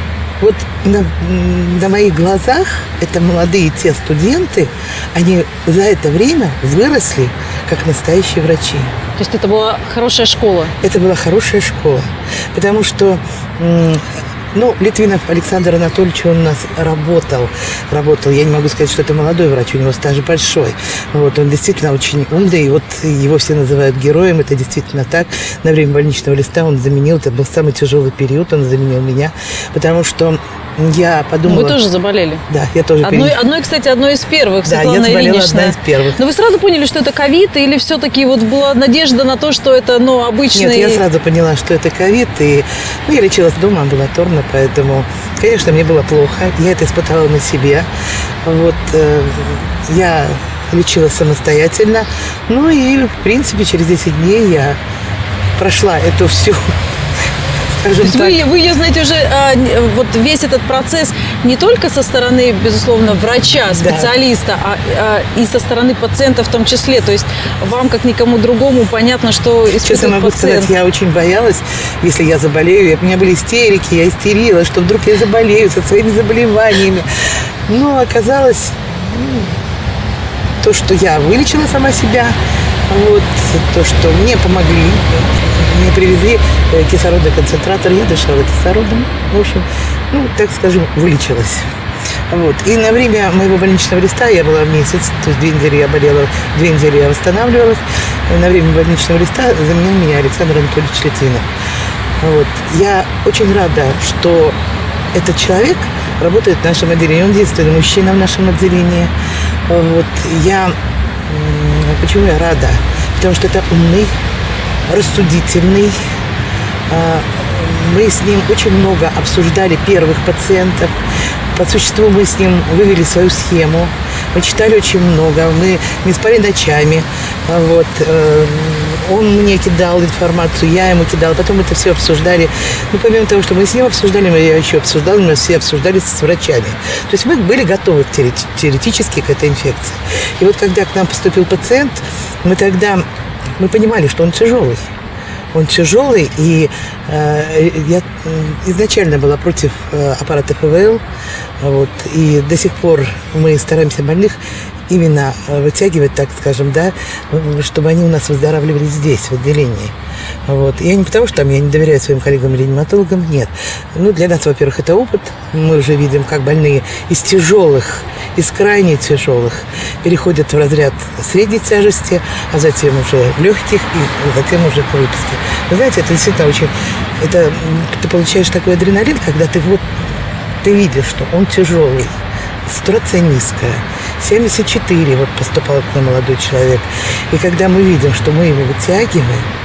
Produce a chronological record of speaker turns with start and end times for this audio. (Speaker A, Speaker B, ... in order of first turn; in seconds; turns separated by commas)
Speaker A: 0.4-9.0, Speaker B: 9.2-10.8, Speaker A: 10.8-31.8, Speaker B: 31.4-32.4, Speaker A: 32.5-33.4, Speaker B: 33.0-41.0, Speaker A: 34.6-36.2, Speaker A: 40.5-47.9, Speaker A: 48.4-54.8, Speaker A: 55.6-56.8, Speaker A: 57.7-58.4, Speaker B: 58.0-70.7, Speaker A: 63.7-64.1, Speaker A: 69.8-79.5, Speaker A: 80.6-82.4, Speaker A: 82.9-91.7, Speaker A: 92.3-101.5, Speaker A: 102.2-104.6, Speaker A: 105.1-109.1, Speaker A: 109.7-114.1, Speaker A: 114.9-116.0, Speaker A: 116.9-143.0, Speaker A: 143.6-144.9, Speaker A: 145.5-151.0, Speaker A: 151.6-159.9, Speaker A: 160.5-189.5